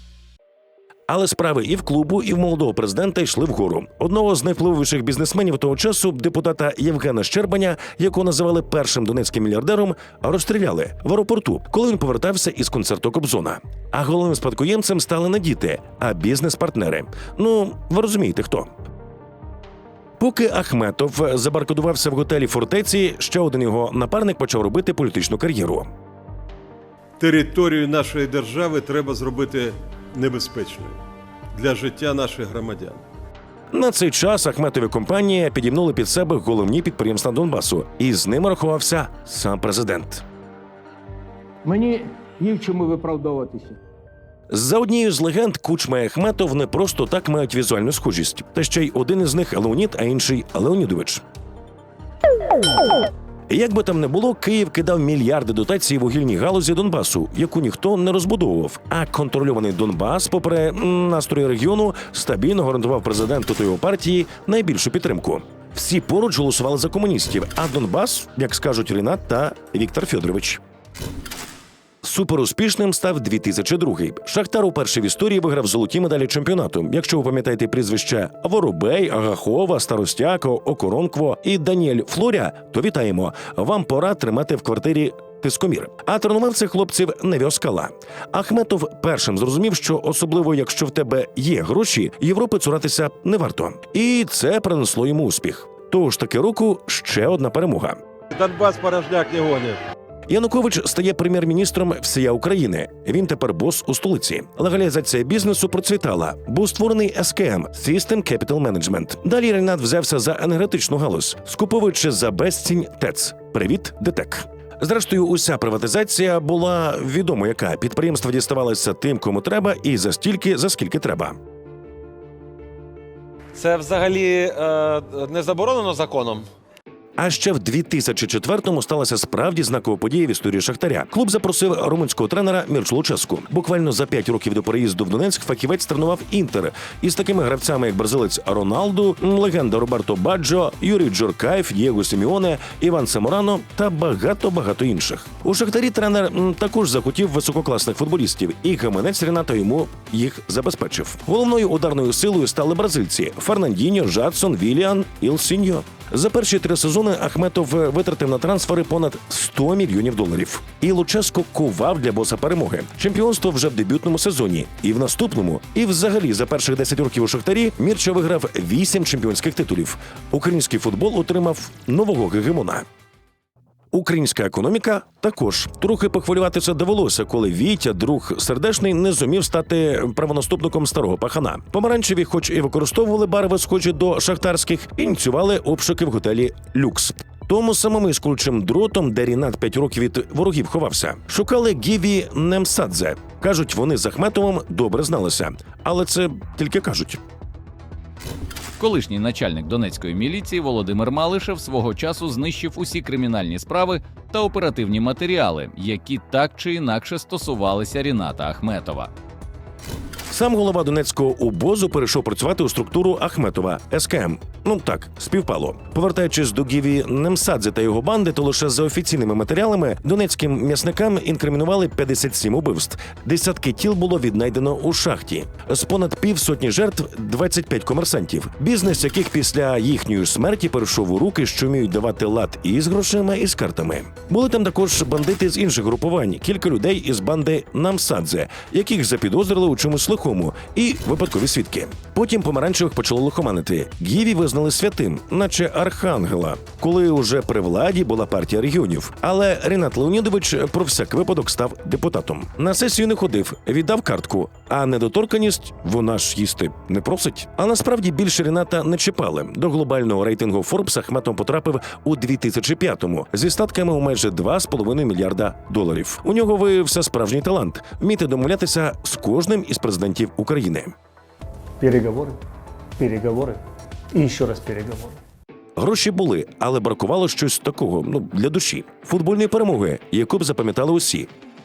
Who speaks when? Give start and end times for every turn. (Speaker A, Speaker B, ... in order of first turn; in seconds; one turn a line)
Speaker A: 1.1-18.7
Speaker A: 20.2-25.9
Speaker B: 27.2-31.0
Speaker B: 31.5-33.0
Speaker A: 33.7-40.2
Speaker C: 41.6-43.8
Speaker A: 44.5-51.2
Speaker A: 53.5-70.6
Speaker A: 72.0-98.0
Speaker B: 98.3-99.8
Speaker A: 100.3-121.4
Speaker D: 123.5-126.5
Speaker A: 127.2-172.8
Speaker A: 173.9-197.2
Speaker E: 198.8-209.1
Speaker A: 210.3-270.9
Speaker F: 271.8-272.4
Speaker F: 273.0-273.6
Speaker F: 274.1-275.2
Speaker A: 275.8-281.3